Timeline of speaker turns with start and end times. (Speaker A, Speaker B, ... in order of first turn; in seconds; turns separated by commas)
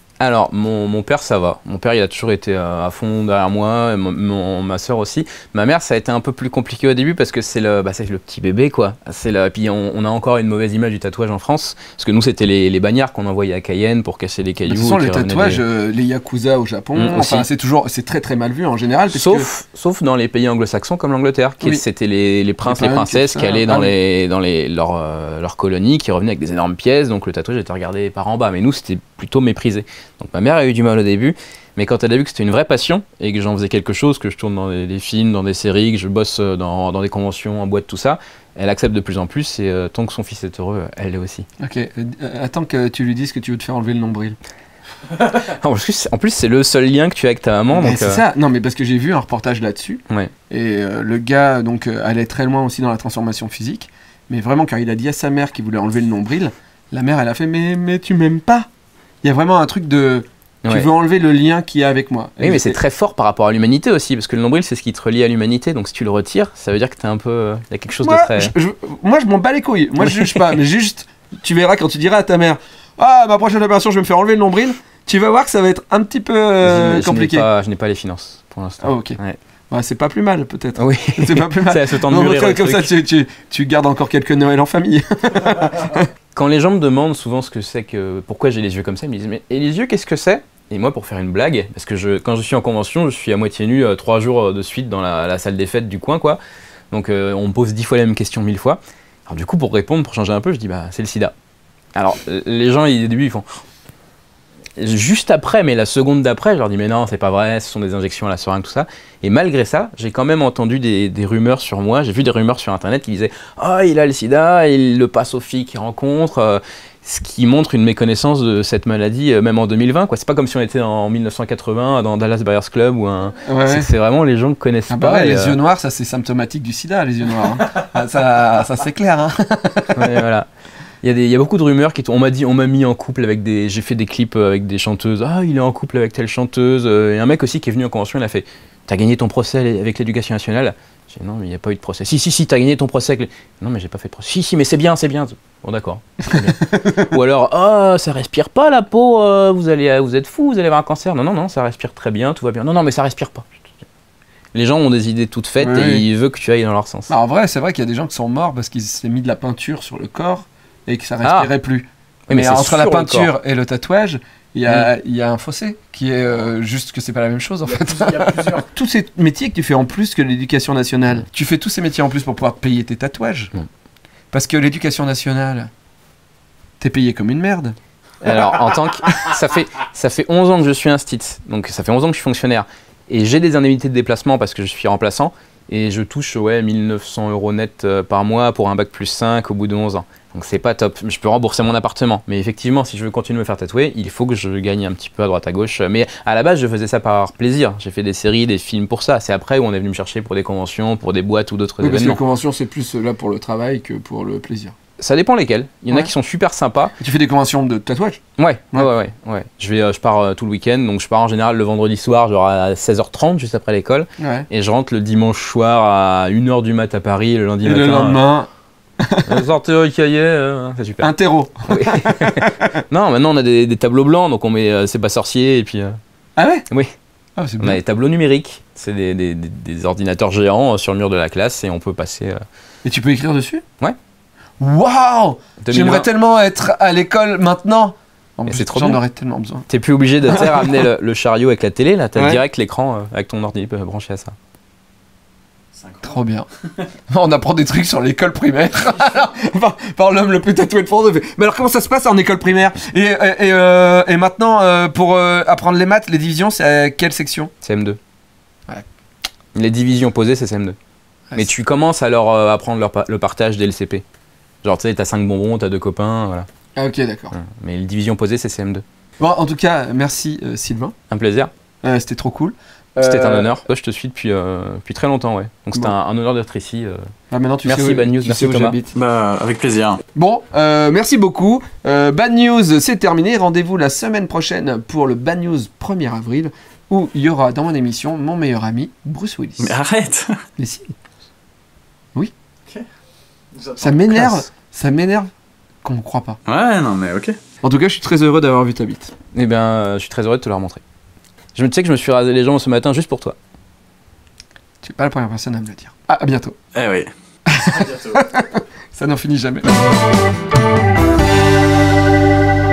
Speaker A: 0.2-15.6, Speaker B: 14.7-19.5, Speaker A: 17.0-17.5, Speaker A: 19.1-41.5, Speaker B: 22.6-23.9, Speaker B: 41.6-44.4, Speaker A: 45.1-48.2, Speaker B: 47.7-58.7, Speaker B: 59.2-62.8, Speaker A: 60.6-60.9, Speaker A: 62.4-68.5, Speaker B: 68.0-77.5, Speaker A: 70.0-70.5, Speaker A: 76.6-79.4, Speaker B: 78.8-79.2, Speaker B: 79.7-86.1, Speaker A: 80.8-82.9, Speaker A: 86.3-96.4, Speaker A: 96.9-101.3, Speaker A: 102.0-103.5, Speaker A: 104.8-125.6, Speaker B: 123.5-123.9, Speaker B: 124.9-130.2, Speaker A: 129.9-130.5, Speaker A: 131.0-153.7, Speaker B: 146.6-147.1, Speaker A: 154.5-157.1, Speaker B: 155.6-156.0, Speaker B: 157.1-173.5, Speaker A: 161.2-161.5, Speaker A: 162.3-163.3, Speaker C: 167.7-168.7, Speaker B: 174.3-175.7, Speaker B: 176.8-178.5, Speaker A: 178.2-202.2, Speaker B: 201.8-204.8, Speaker A: 205.0-206.9, Speaker B: 207.0-208.2, Speaker A: 208.4-218.2, Speaker B: 214.2-214.5, Speaker B: 217.6-218.5, Speaker B: 219.0-219.4, Speaker A: 219.3-221.1, Speaker B: 221.0-222.8, Speaker A: 221.7-226.0, Speaker B: 226.4-226.7, Speaker A: 226.7-226.9, Speaker B: 227.4-227.8, Speaker A: 227.6-232.4, Speaker B: 232.8-233.6, Speaker B: 234.6-239.7, Speaker A: 235.6-236.1, Speaker A: 238.5-239.0, Speaker A: 239.7-244.4, Speaker B: 240.3-240.8, Speaker B: 242.2-242.4, Speaker C: 245.8-246.1, Speaker B: 246.0-246.5, Speaker B: 247.1-257.5, Speaker A: 257.6-258.0, Speaker A: 259.6-260.8, Speaker A: 261.4-264.0, Speaker A: 264.6-266.5, Speaker B: 266.8-267.4, Speaker A: 267.3-268.8, Speaker B: 269.2-270.9, Speaker A: 271.1-271.5, Speaker B: 271.8-273.6, Speaker A: 273.0-277.1, Speaker B: 277.3-278.9, Speaker A: 277.6-278.8, Speaker C: 278.9-280.0, Speaker B: 280.1-289.8, Speaker C: 289.6-290.4, Speaker B: 290.6-290.9, Speaker C: 293.5-294.3, Speaker B: 293.8-295.3, Speaker B: 295.8-296.4, Speaker C: 296.5-297.4, Speaker B: 297.6-299.1, Speaker A: 299.3-300.8, Speaker A: 301.6-303.4, Speaker B: 304.8-306.6, Speaker C: 306.8-308.2, Speaker B: 307.5-309.9